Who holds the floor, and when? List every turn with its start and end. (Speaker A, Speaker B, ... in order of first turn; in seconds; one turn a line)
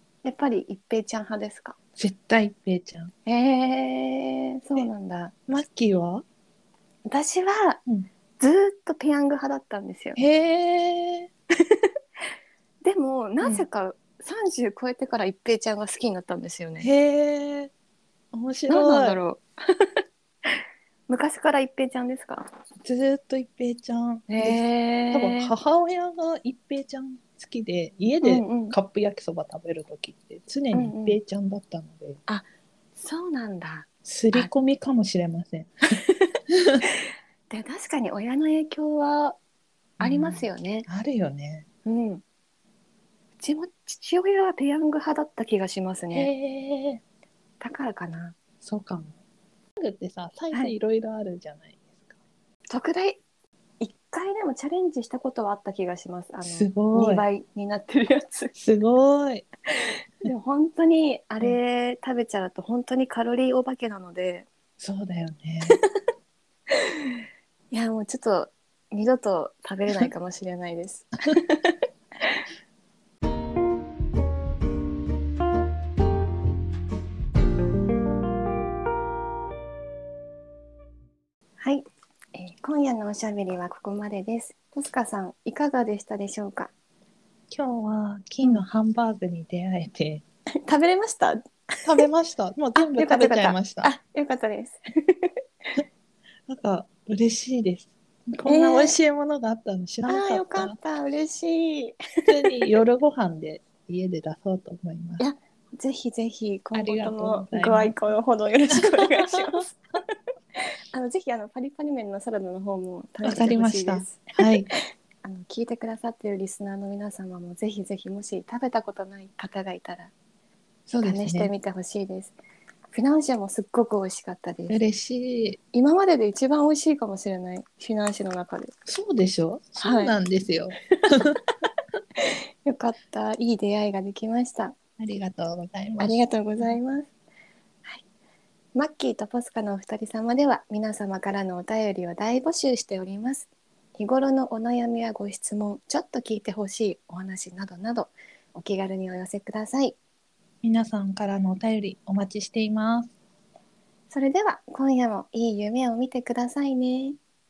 Speaker A: 0.2-1.8
Speaker B: 2.0-3.1
Speaker A: 3.3-5.3
Speaker B: 5.5-6.2
Speaker A: 7.1-7.8
Speaker A: 8.4-10.2
Speaker B: 10.2-11.3
Speaker A: 12.8-16.9
Speaker B: 16.8-17.7
Speaker B: 18.3-19.2
Speaker A: 18.7-19.9
Speaker A: 20.5-22.5
Speaker B: 22.8-32.2
Speaker A: 24.3-25.5
Speaker A: 28.2-28.8
Speaker A: 30.7-31.2
Speaker A: 33.0-34.5
Speaker B: 34.0-35.7
Speaker B: 36.5-36.8
Speaker A: 37.5-39.4
Speaker A: 40.0-40.9
Speaker B: 40.0-41.7
Speaker A: 41.9-42.2
Speaker A: 43.4-46.3
Speaker B: 46.1-47.0
Speaker A: 47.6-48.4
Speaker B: 48.6-49.1
Speaker B: 49.8-52.2
Speaker A: 52.7-53.2
Speaker A: 53.8-58.5
Speaker B: 56.4-57.2
Speaker B: 58.5-59.5
Speaker A: 59.8-64.5
Speaker B: 64.8-65.8
Speaker A: 66.7-67.2
Speaker A: 67.7-72.5
Speaker A: 81.6-86.7
Speaker B: 87.5-90.2
Speaker A: 90.7-92.0
Speaker B: 91.8-93.9
Speaker A: 92.8-95.8
Speaker B: 96.5-100.8
Speaker A: 98.5-99.0
Speaker A: 100.0-102.7
Speaker B: 102.3-105.2
Speaker A: 105.2-109.8
Speaker B: 106.7-108.0
Speaker B: 108.8-109.5
Speaker A: 110.6-120.1
Speaker B: 113.2-114.7
Speaker B: 120.9-121.5
Speaker A: 121.0-122.3
Speaker A: 122.9-124.8
Speaker B: 124.7-125.6
Speaker A: 125.7-128.7
Speaker B: 128.9-131.4
Speaker A: 129.8-130.1
Speaker A: 132.2-134.8
Speaker B: 135.0-136.7
Speaker A: 136.0-137.1
Speaker A: 138.8-150.0
Speaker B: 150.6-153.1
Speaker A: 154.1-157.2